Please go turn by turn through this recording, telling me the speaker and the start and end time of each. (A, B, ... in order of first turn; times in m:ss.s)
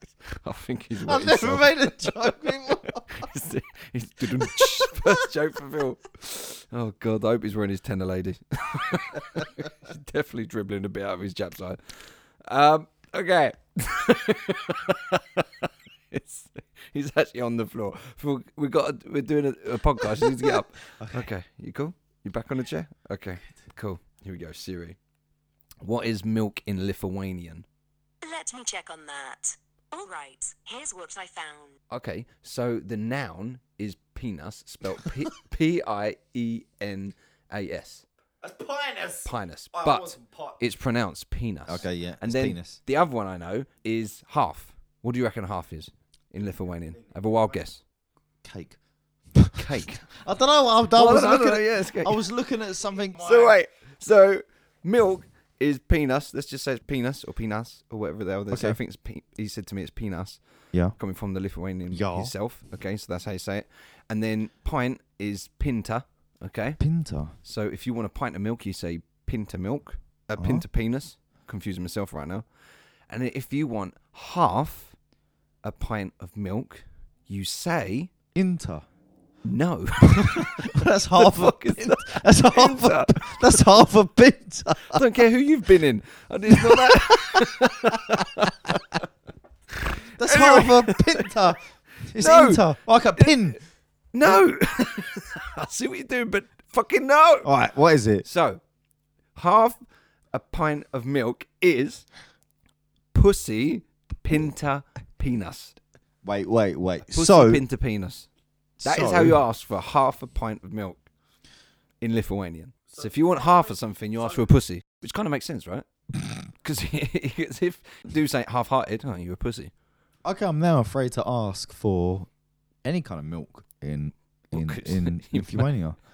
0:00.3-0:01.7 A
0:01.0-0:03.0 B
0:03.1-0:25.0 A
0:04.4-0:05.0 B
0:20.2-0:21.3 B
0:25.8-0:27.6 A
0:28.2-0:31.7 C
0:31.9-0:38.0 A
0:38.4-0:40.6 B
0:39.2-0:47.8 A
0:41.6-0:42.8 B
0:47.1-0:47.6 B
0:48.4-0:48.8 B
0:49.3-0:53.6 B
0:49.6-0:50.1 A
0:50.9-0:52.2 A
0:53.2-1:00.4 A
0:58.5-0:58.8 B
1:00.9-1:06.8 A
1:01.9-1:02.3 B
1:06.8-1:07.3 B
1:07.4-1:12.4 A
1:10.4-1:10.6 B
1:13.1-1:15.0 A
1:15.6-1:18.1 A
1:18.3-1:18.8 B
1:19.4-1:23.7 A
1:20.3-1:25.0 B
1:24.9-1:29.0 A
1:26.5-1:27.4 B
1:30.2-1:33.6 B
1:30.2-1:31.3 A
1:32.2-1:33.6 A
1:34.1-1:37.5 A
1:37.4-1:38.2 B
1:38.2-1:38.6 A
1:39.3-1:39.8 A
1:40.3-1:42.0 A
1:43.1-1:45.8 A
1:46.2-1:47.6 B
1:47.1-1:48.3 A
1:48.8-1:49.4 B
1:48.8-1:51.0 A
1:52.0-1:55.8 A
1:56.5-1:59.7 A
2:00.2-2:02.3 B
2:02.8-2:06.0 B
2:04.5-2:05.7 A